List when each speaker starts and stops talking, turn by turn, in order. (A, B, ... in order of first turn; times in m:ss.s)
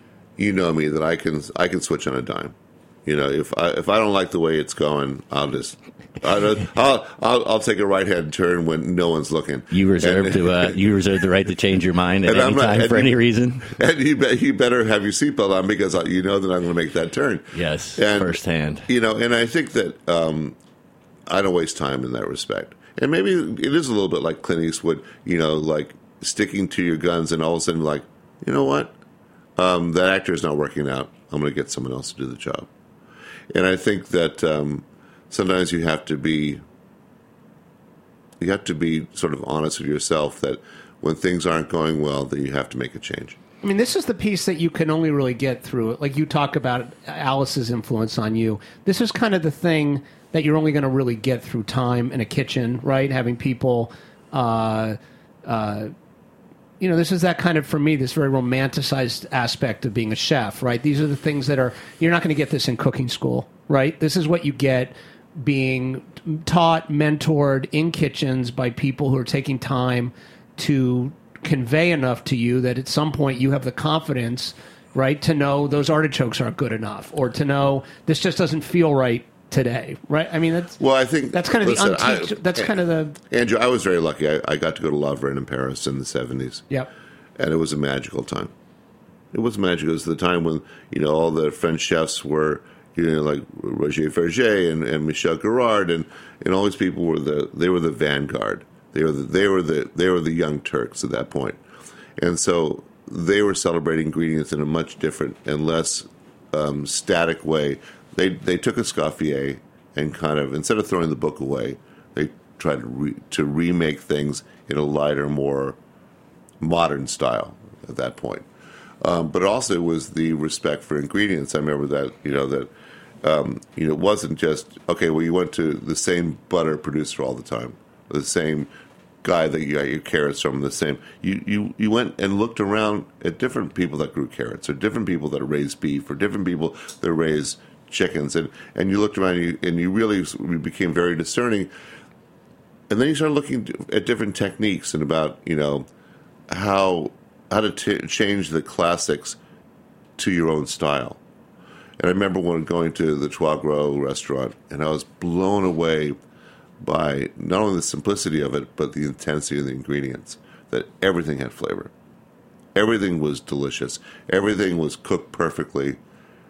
0:00.4-0:10.8 A
0:09.7-0:13.8 B
0:12.2-0:13.1 A
0:13.7-0:20.6 A
0:17.6-0:18.9 B
0:21.3-0:28.9 A
0:29.6-0:32.7 A
0:33.5-0:36.6 A
0:38.4-0:43.4 A
0:43.6-0:55.9 C
0:56.8-1:20.8 C
1:20.8-1:22.7 A
1:21.3-1:23.2 C
1:23.3-1:26.6 A
1:27.4-1:28.5 A
1:29.3-1:41.6 A
1:42.2-1:55.8 A
1:56.6-1:58.5 A
1:59.0-2:02.7 A
2:03.2-2:08.7 A
2:09.2-2:21.7 A
2:22.9-2:25.9 A
2:26.5-2:29.4 A
2:30.2-2:31.2 A
2:32.0-2:36.2 A
2:36.8-2:41.9 A
2:42.8-2:46.0 A